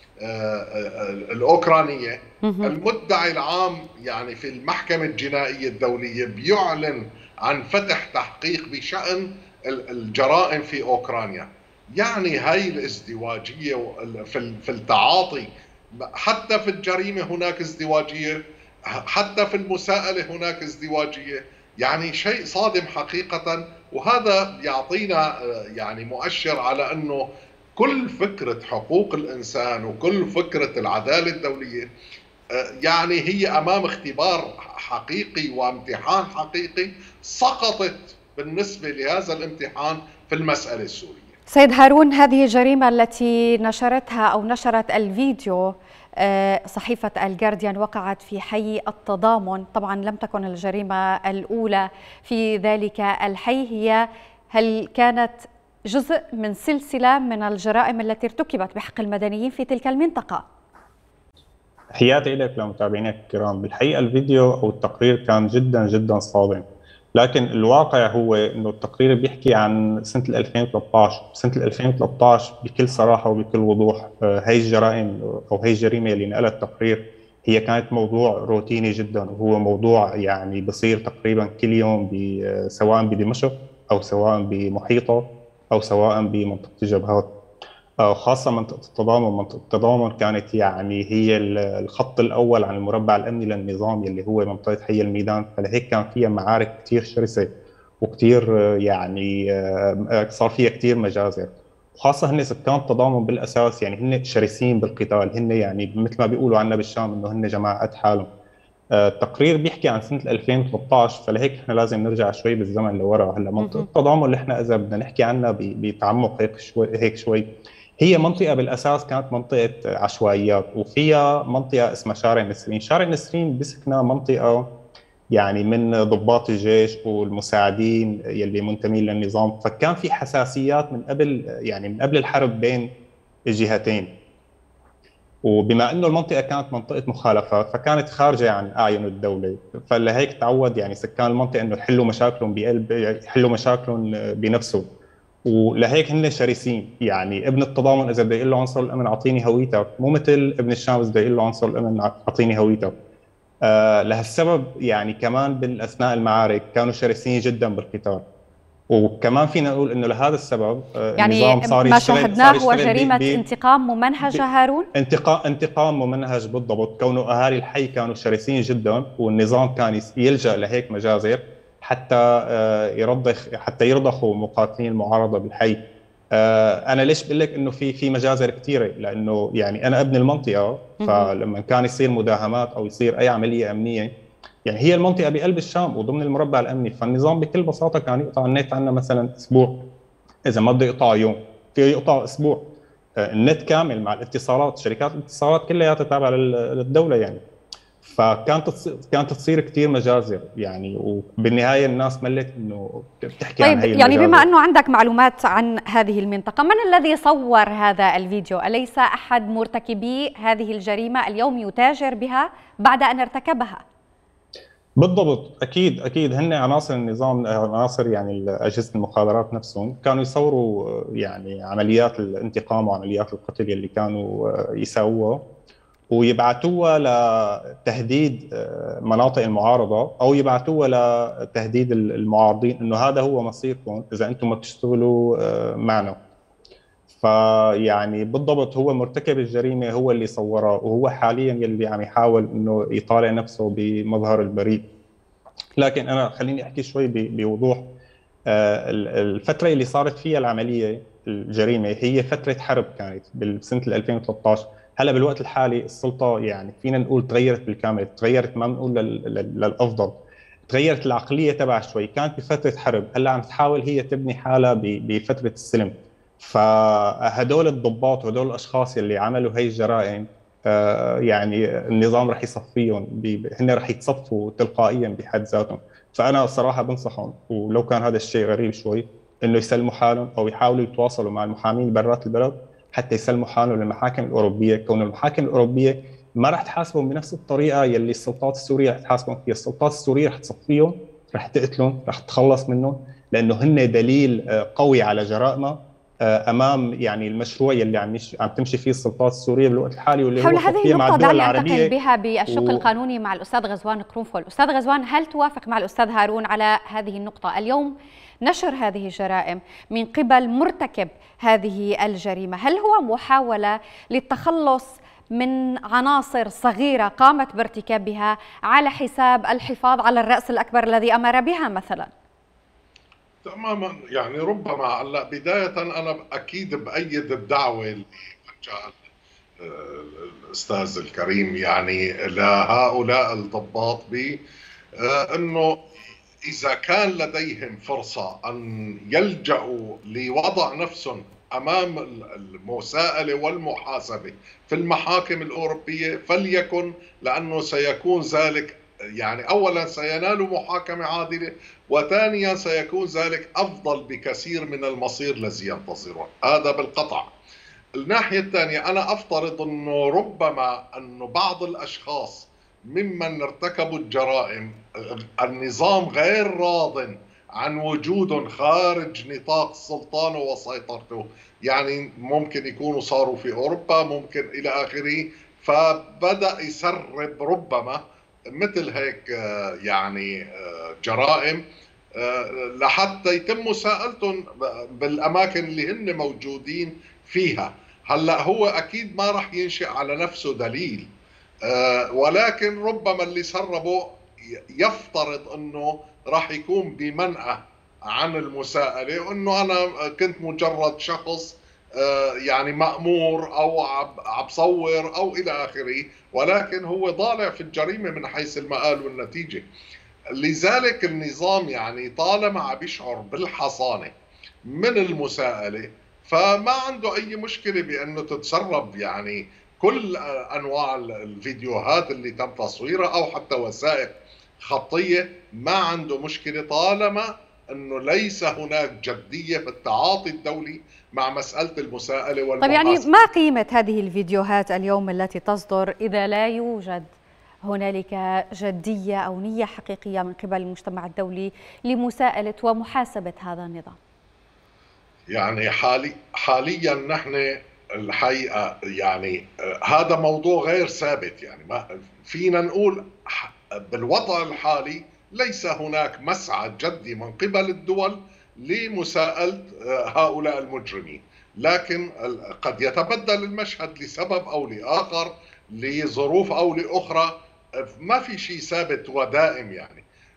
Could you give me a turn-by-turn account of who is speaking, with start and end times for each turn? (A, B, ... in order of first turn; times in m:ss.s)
0:00.2-0:18.4 A
0:02.4-0:02.7 B
0:18.9-0:27.2 A
0:27.8-0:31.9 A
0:32.6-0:41.4 A
0:41.5-1:00.5 B
1:02.0-1:27.3 C
1:28.0-1:48.3 C
1:48.9-1:57.4 C
1:53.6-1:53.9 B
1:58.0-2:04.7 C
2:05.3-2:12.9 C
2:13.5-2:14.1 C
2:15.4-2:24.9 C
2:25.4-2:32.9 C
2:33.6-2:38.2 C
2:38.9-2:43.4 C
2:41.2-2:44.9 B
2:44.9-2:55.8 C
2:56.3-3:04.1 C
3:01.0-3:01.3 B
3:04.7-3:09.9 C
3:10.5-3:17.4 C
3:18.0-3:24.5 C
3:23.6-3:33.8 B
3:35.0-3:45.4 C
3:46.1-3:56.2 C
3:57.1-4:04.8 C
4:05.8-4:07.9 C
4:08.5-5:01.9 C
5:00.4-5:22.1 B
5:02.5-5:02.9 C
5:23.4-5:29.0 A
5:29.6-5:34.4 A
5:35.0-5:35.8 A
5:36.4-5:57.3 A
5:58.0-6:18.0 A
6:18.5-6:21.6 A
6:22.2-6:31.1 A
6:31.6-6:34.2 A
6:34.8-6:49.7 A
6:50.3-6:54.1 A
6:54.7-7:13.0 A
7:12.6-7:17.1 B
7:17.6-7:24.0 B
7:25.3-7:50.0 A